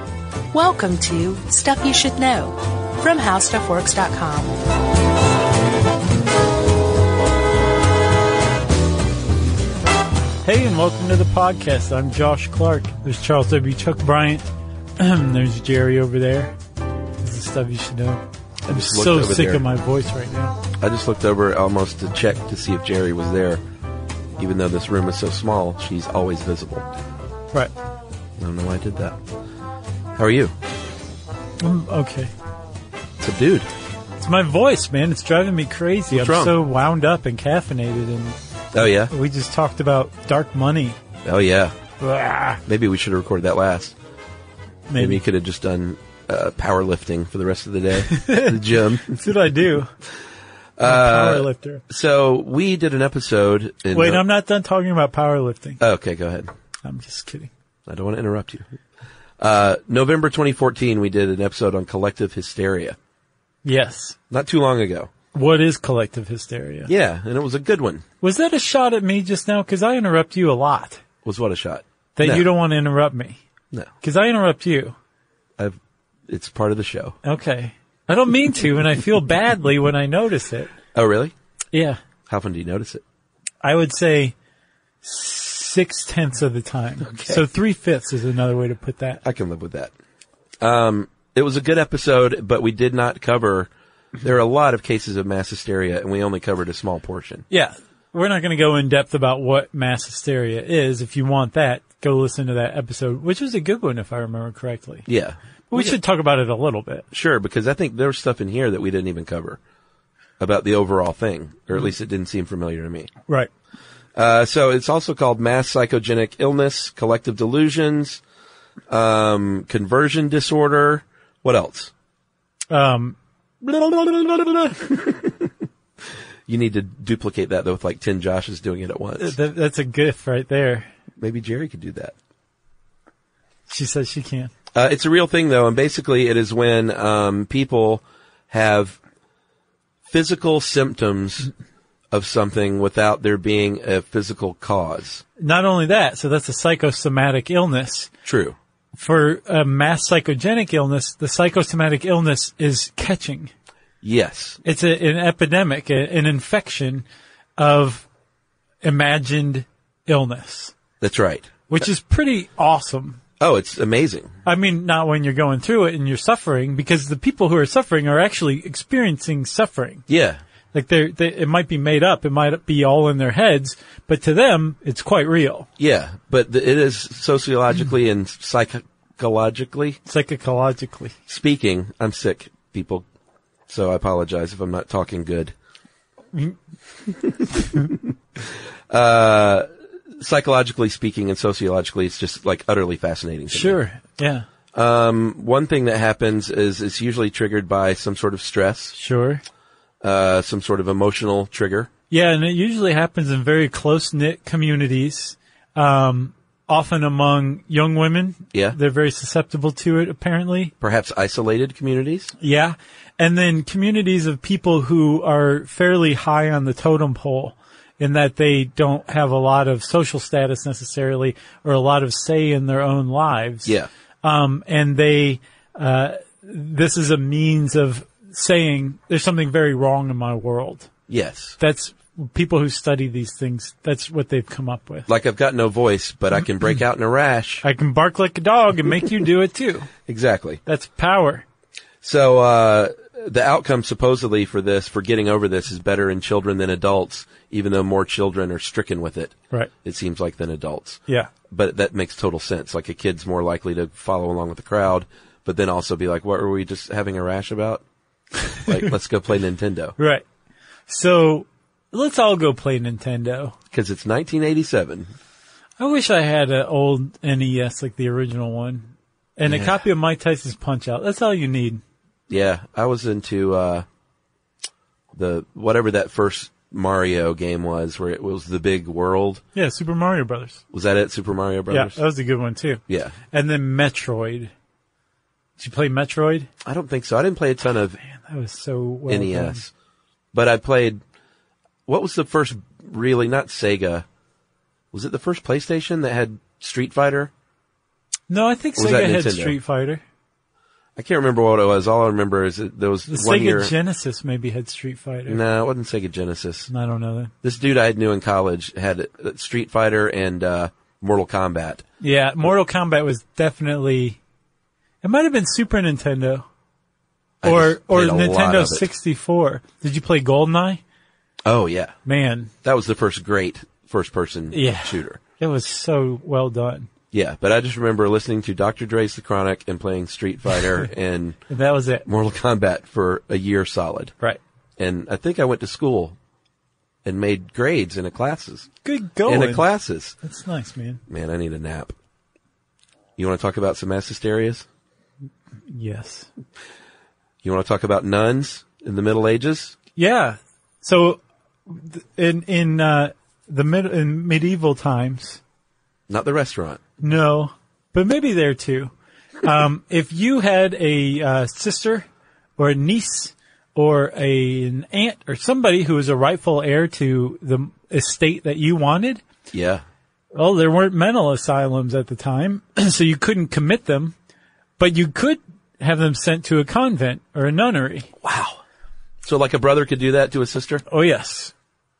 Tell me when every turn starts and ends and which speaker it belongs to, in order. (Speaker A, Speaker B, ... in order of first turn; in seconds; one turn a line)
Speaker A: 0.5-4.6
Speaker B: 10.4-14.5
Speaker B: 15.0-16.6
Speaker B: 17.2-20.6
Speaker C: 18.7-19.6
Speaker C: 20.8-23.6
Speaker C: 24.4-26.9
Speaker C: 28.4-29.2
Speaker C: 30.2-30.5
Speaker B: 31.6-32.3
Speaker C: 33.2-33.7
Speaker B: 34.2-38.4
Speaker C: 36.1-36.5
Speaker C: 38.7-39.1
Speaker B: 39.1-41.0
Speaker C: 41.2-41.8
Speaker B: 42.0-42.6
Speaker C: 42.7-44.0
Speaker B: 44.9-45.2
Speaker C: 45.0-49.2
Speaker B: 48.1-49.9
Speaker C: 50.8-54.2
Speaker B: 50.8-51.8
Speaker B: 53.9-55.8
Speaker C: 55.8-56.5
Speaker B: 56.9-57.5
Speaker C: 57.9-58.7
Speaker C: 59.4-63.0
Speaker B: 63.6-64.2
Speaker C: 64.3-65.1
Speaker B: 65.3-66.9
Speaker C: 66.9-68.0
Speaker B: 68.2-71.0
Speaker C: 71.2-72.5
Speaker B: 72.2-73.4
Speaker B: 74.0-75.0
Speaker C: 75.6-77.2
Speaker B: 77.2-80.7
Speaker C: 80.9-81.3
Speaker B: 81.7-82.0
Speaker C: 82.3-83.0
Speaker B: 83.6-84.3
Speaker B: 85.0-89.2
Speaker C: 87.0-87.4
Speaker C: 89.2-89.9
Speaker C: 90.6-93.7
Speaker C: 94.2-97.4
Speaker B: 97.5-105.0
Speaker C: 105.1-106.0
Speaker B: 105.7-107.1
Speaker C: 107.1-109.6
Speaker C: 110.4-113.1
Speaker C: 114.2-118.2
Speaker C: 118.9-121.9
Speaker B: 122.7-123.2
Speaker C: 123.6-125.5
Speaker C: 126.5-129.3
Speaker B: 129.2-130.9
Speaker C: 131.2-132.2
Speaker B: 133.7-134.5
Speaker C: 134.7-139.0
Speaker C: 140.1-141.5
Speaker C: 142.1-145.2
Speaker B: 145.4-148.1
Speaker C: 148.2-148.6
Speaker B: 149.0-153.5
Speaker C: 154.0-154.6
Speaker B: 154.7-157.1
Speaker B: 157.6-158.1
Speaker B: 158.8-160.7
Speaker C: 161.0-161.8
Speaker B: 161.7-163.2
Speaker C: 163.4-164.3
Speaker B: 164.5-170.1
Speaker C: 170.1-170.4
Speaker B: 170.7-175.7
Speaker C: 175.8-180.0
Speaker B: 180.1-181.1
Speaker C: 181.3-183.1
Speaker C: 183.7-185.5
Speaker C: 187.2-189.7
Speaker C: 190.2-193.8
Speaker B: 193.5-194.5
Speaker C: 194.7-199.0
Speaker B: 199.0-199.4
Speaker C: 200.0-201.9
Speaker B: 202.1-210.7
Speaker C: 210.8-212.3
Speaker B: 212.4-230.9
Speaker C: 231.1-231.6
Speaker B: 231.6-235.1
Speaker C: 235.1-237.6
Speaker B: 237.6-239.9
Speaker C: 240.1-240.6
Speaker B: 240.7-241.4
Speaker C: 242.0-257.8
Speaker C: 258.7-260.0
Speaker B: 260.0-260.2
Speaker B: 260.9-263.6
Speaker C: 263.7-265.1
Speaker B: 265.8-271.8
Speaker C: 269.5-269.8
Speaker C: 272.3-273.9
Speaker C: 275.1-279.4
Speaker B: 279.6-280.6
Speaker C: 280.7-282.0
Speaker B: 281.7-284.5
Speaker C: 282.9-283.1
Speaker B: 285.6-286.5
Speaker C: 286.6-288.0
Speaker B: 288.0-289.6
Speaker C: 289.1-289.7
Speaker C: 290.3-291.0
Speaker C: 291.9-294.1
Speaker C: 294.9-297.3
Speaker B: 298.3-300.0
Speaker C: 298.8-299.6
Speaker C: 301.0-303.7
Speaker B: 303.1-305.4
Speaker C: 305.3-306.7
Speaker B: 306.7-307.3
Speaker C: 307.4-311.8
Speaker B: 312.0-314.2
Speaker B: 315.0-316.4
Speaker C: 317.4-318.9
Speaker B: 317.4-320.8
Speaker C: 321.4-321.9
Speaker B: 322.1-322.5
Speaker C: 322.6-325.2
Speaker B: 324.5-326.9
Speaker C: 327.1-331.4
Speaker B: 331.5-332.1
Speaker C: 332.1-334.1
Speaker C: 334.8-336.2
Speaker C: 337.1-338.7
Speaker B: 338.8-339.7
Speaker C: 339.3-340.1
Speaker B: 340.2-341.0
Speaker C: 341.1-341.9
Speaker C: 343.2-344.7
Speaker B: 345.7-346.3
Speaker C: 347.4-349.8
Speaker B: 350.0-355.4
Speaker C: 356.1-356.8
Speaker B: 357.0-358.9
Speaker B: 359.4-369.2
Speaker C: 369.5-369.8
Speaker B: 370.3-374.1
Speaker B: 374.8-378.1
Speaker C: 378.2-378.6
Speaker C: 379.2-380.9
Speaker B: 380.9-381.5